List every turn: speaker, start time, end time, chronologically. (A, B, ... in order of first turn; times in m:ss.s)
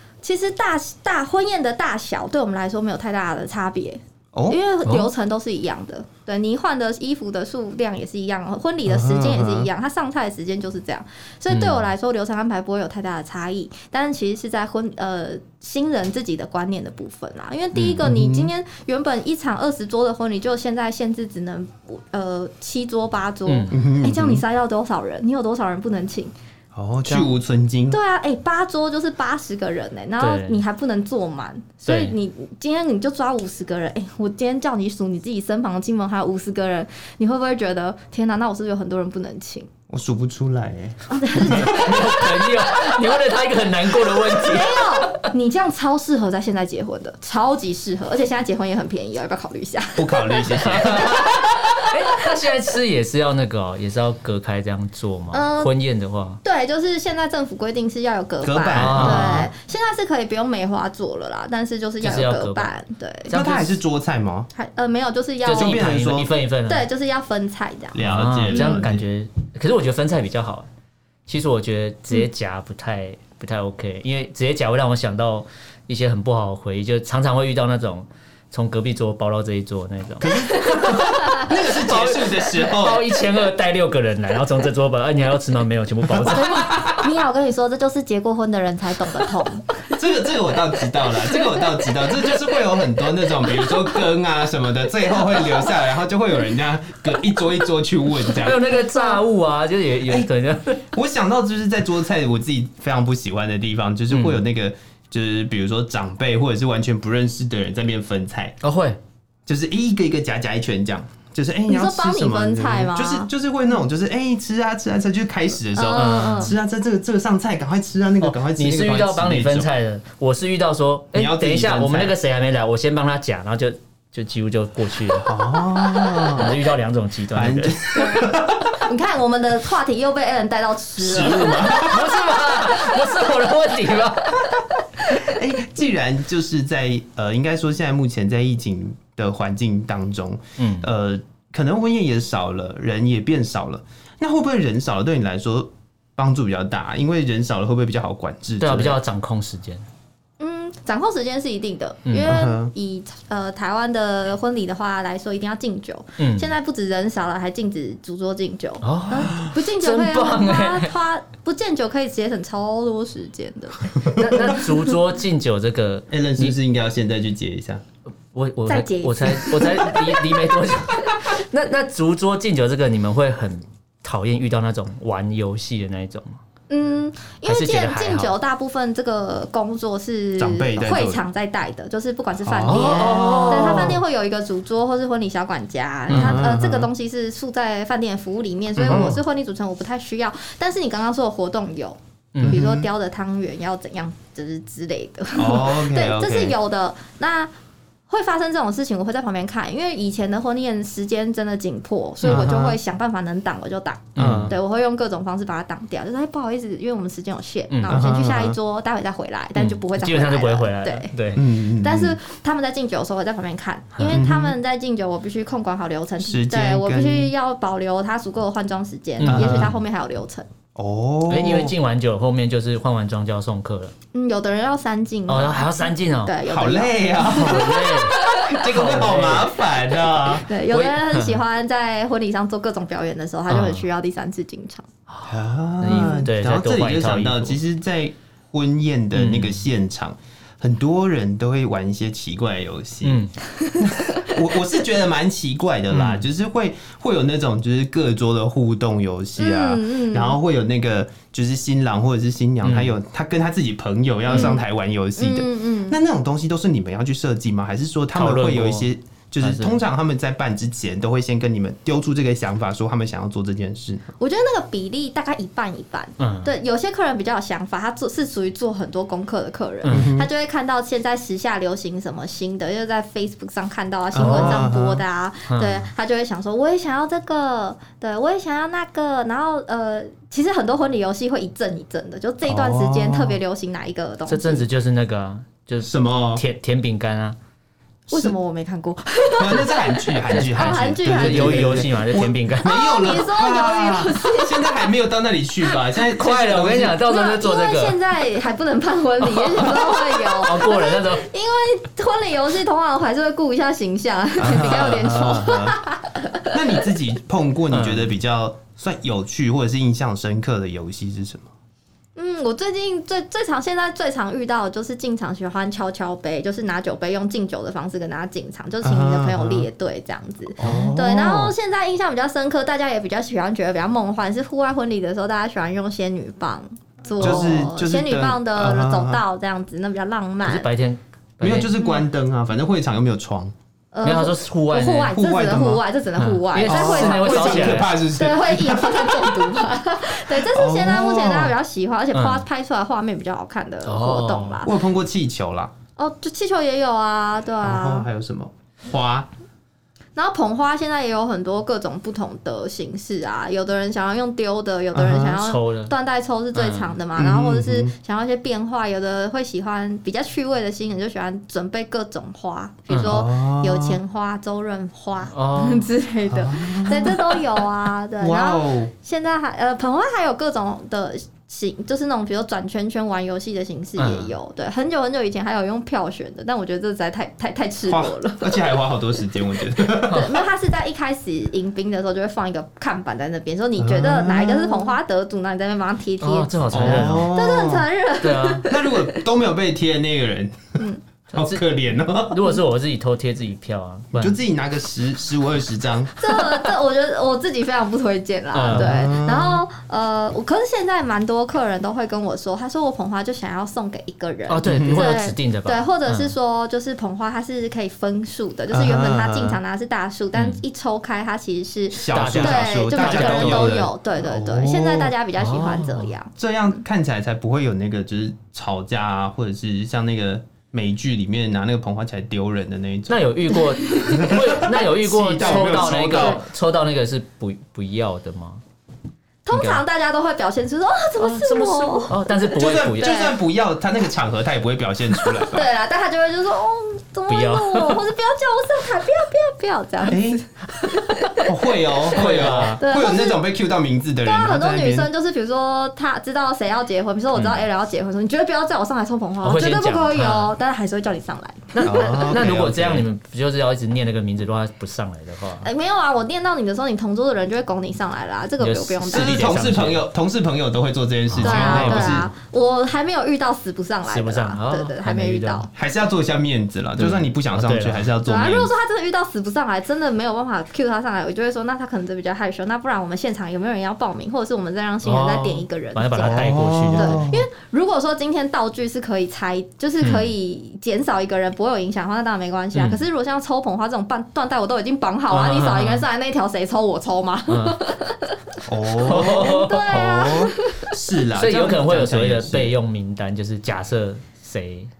0:00.2-0:26.3 A
0:04.3-0:04.6 B
0:08.9-0:09.7 B
0:11.5-0:11.8 C
0:17.8-0:18.5 B
0:23.4-0:23.8 C
0:23.7-0:24.4 B
0:26.7-0:28.0 B
0:27.9-0:39.7 A
0:30.2-0:30.6 C
0:31.8-0:32.2 C
0:39.9-0:41.9 B
0:41.1-0:43.2 A
0:41.4-0:45.3 C
0:43.9-0:52.2 A
0:50.0-0:51.3 B
0:50.6-0:56.4 C
0:55.3-0:55.7 A
0:56.4-1:03.3 A
0:58.4-0:59.5 B
0:58.7-0:59.5 C
1:02.0-1:02.7 C
1:03.3-1:03.8 C
1:03.3-1:04.5 B
1:04.5-1:05.9 A
1:05.4-1:06.9 C
1:05.5-1:06.3 B
1:06.7-1:08.8 A
1:07.9-1:09.0 B
1:08.0-1:10.7 C
1:11.3-1:27.0 C
1:20.2-1:23.0 B
1:20.3-1:21.5 A
1:26.1-1:26.9 B
1:26.3-1:29.7 A
1:29.9-1:38.6 B
1:38.4-1:40.8 C
1:38.7-1:39.2 A
1:40.9-1:48.5 B
1:44.1-1:44.4 C
1:48.6-1:49.0 C
1:49.4-1:59.7 B
1:51.7-1:53.3 A
1:55.8-1:56.5 A
1:55.9-1:56.5 C
1:58.2-2:05.3 C
2:01.1-2:02.1 B
2:05.2-2:06.5 B
2:06.2-2:07.8 C
2:07.3-2:08.8 B
2:07.9-2:08.3 A
2:08.8-2:13.0 A
2:11.0-2:12.1 B
2:11.5-2:14.4 C
2:15.1-2:29.0 B
2:20.6-2:20.9 C
2:28.6-2:29.8 C
2:30.4-2:44.8 A
2:32.1-2:32.4 C
2:32.2-2:32.7 B
2:36.2-2:36.5 C
2:38.8-2:40.9 C
2:44.0-2:46.5 C
2:46.1-2:47.8 B
2:48.3-2:56.4 C
2:48.7-2:51.2 A
2:56.7-3:17.5 A
2:57.4-2:58.3 C
3:00.4-3:01.2 B
3:02.4-3:04.0 B
3:02.6-3:04.0 C
3:06.1-3:06.9 B
3:06.1-3:06.5 C
3:08.8-3:09.2 B
3:08.9-3:09.1 C
3:12.3-3:12.6 C
3:12.4-3:12.9 B
3:15.4-3:16.5 B
3:18.1-3:31.1 A
3:22.2-3:22.5 C
3:22.3-3:22.8 B
3:24.2-3:24.5 B
3:24.2-3:24.5 C
3:27.7-3:28.0 C
3:27.9-3:28.6 B
3:29.6-3:31.5 C
3:31.3-3:32.2 B
3:31.8-3:40.5 A
3:34.0-3:34.2 C
3:34.0-3:34.6 B
3:36.2-3:37.3 B
3:39.2-3:39.7 C
3:39.2-3:39.8 B
3:40.7-3:41.7 B
3:41.3-3:43.9 C
3:44.1-3:48.6 A
3:45.3-3:46.4 C
3:46.4-3:50.5 B
3:47.3-3:49.6 C
3:50.4-3:54.9 A
3:50.7-3:51.4 C
3:53.5-3:53.9 C
3:55.1-3:57.6 C
3:55.2-4:03.2 B
3:59.1-3:59.6 C
4:03.0-4:03.3 C
4:03.8-4:24.1 B
4:05.9-4:06.2 C
4:09.4-4:10.4 A
4:12.6-4:12.9 C
4:14.3-4:14.6 A
4:15.2-4:16.0 A
4:18.1-4:18.9 C
4:19.4-4:19.8 C
4:24.2-4:44.6 A
4:26.2-4:26.5 C
4:29.8-4:30.1 C
4:29.9-4:30.3 B
4:34.1-4:35.0 B
4:34.2-4:34.6 C
4:35.5-4:35.9 C
4:42.4-4:43.4 B
4:44.3-4:47.4 C
4:45.8-4:46.4 B
4:48.1-4:51.9 A
4:49.4-4:57.0 B
4:50.3-4:52.8 C
4:52.6-4:54.9 A
4:56.0-4:58.0 C
4:57.0-5:06.5 A
4:59.3-5:01.3 C
5:04.4-5:05.8 B
5:06.5-5:11.5 B
5:07.7-5:08.1 C
5:12.2-5:30.7 A
5:18.8-5:19.7 B
5:20.6-5:21.5 B
5:27.2-5:29.2 B
5:30.4-5:31.7 C
5:31.4-5:33.5 B
5:33.9-5:44.7 A
5:34.0-5:35.1 C
5:35.1-5:35.8 B
5:36.2-5:37.9 C
5:36.6-5:39.6 B
5:40.3-5:41.5 B
5:42.1-5:42.4 C
5:43.8-5:44.6 C
5:44.6-5:45.7 B
5:46.0-5:48.1 A
5:47.6-5:49.3 B
5:50.2-6:18.7 A
5:54.9-5:55.4 B
5:55.3-5:55.9 C
5:56.5-5:57.0 C
5:57.2-5:57.9 B
6:02.9-6:03.2 C
6:03.0-6:04.0 B
6:05.3-6:05.9 C
6:06.3-6:07.4 B
6:08.2-6:08.9 B
6:14.0-6:14.3 C
6:17.9-6:20.3 B
6:20.0-6:29.2 A
6:20.1-6:20.3 C
6:23.8-6:24.9 B
6:26.2-6:27.3 C
6:26.7-6:27.9 B
6:28.2-6:28.7 C
6:28.7-6:30.8 B
6:31.3-6:32.5 B
6:31.3-6:34.4 C
6:34.1-6:36.1 B
6:36.2-6:56.3 A
6:38.5-6:39.1 C
6:38.7-6:39.6 B
6:44.5-6:46.3 C
6:44.6-6:45.1 B
6:48.7-6:49.6 B
6:50.3-6:50.6 C
6:51.9-6:55.1 B
6:52.1-6:53.9 C
6:55.4-6:56.1 C
6:56.4-7:03.3 B
7:03.1-7:08.6 C
7:03.8-7:04.4 A
7:04.0-7:06.4 B
7:05.4-7:06.4 A
7:09.4-7:12.4 A
7:09.5-7:09.8 C
7:11.2-7:13.2 C
7:12.5-7:15.7 B
7:13.0-7:13.3 A
7:15.2-7:21.5 A
7:17.3-7:18.0 C
7:20.0-7:20.4 B
7:21.4-7:25.1 B
7:22.1-7:22.8 C
7:22.8-7:23.4 A
7:24.2-7:32.3 A
7:27.3-7:27.6 C
7:29.4-7:30.5 C
7:31.7-7:35.7 C
7:31.8-7:33.0 B
7:35.6-7:39.6 A
7:38.6-7:40.0 C
7:39.1-7:42.3 B
7:41.3-7:42.3 C
7:41.4-7:45.7 A
7:44.1-7:45.6 C
7:45.7-7:48.7 B
7:47.0-7:48.1 C
7:48.2-8:08.4 A
7:55.0-7:57.3 C
7:56.2-7:57.5 B
8:00.0-8:00.3 C
8:02.7-8:03.0 C
8:05.3-8:06.0 C
8:07.5-8:07.8 C
8:08.7-8:12.7 B
8:09.0-8:10.3 C
8:09.0-8:10.9 A
8:11.3-8:14.9 C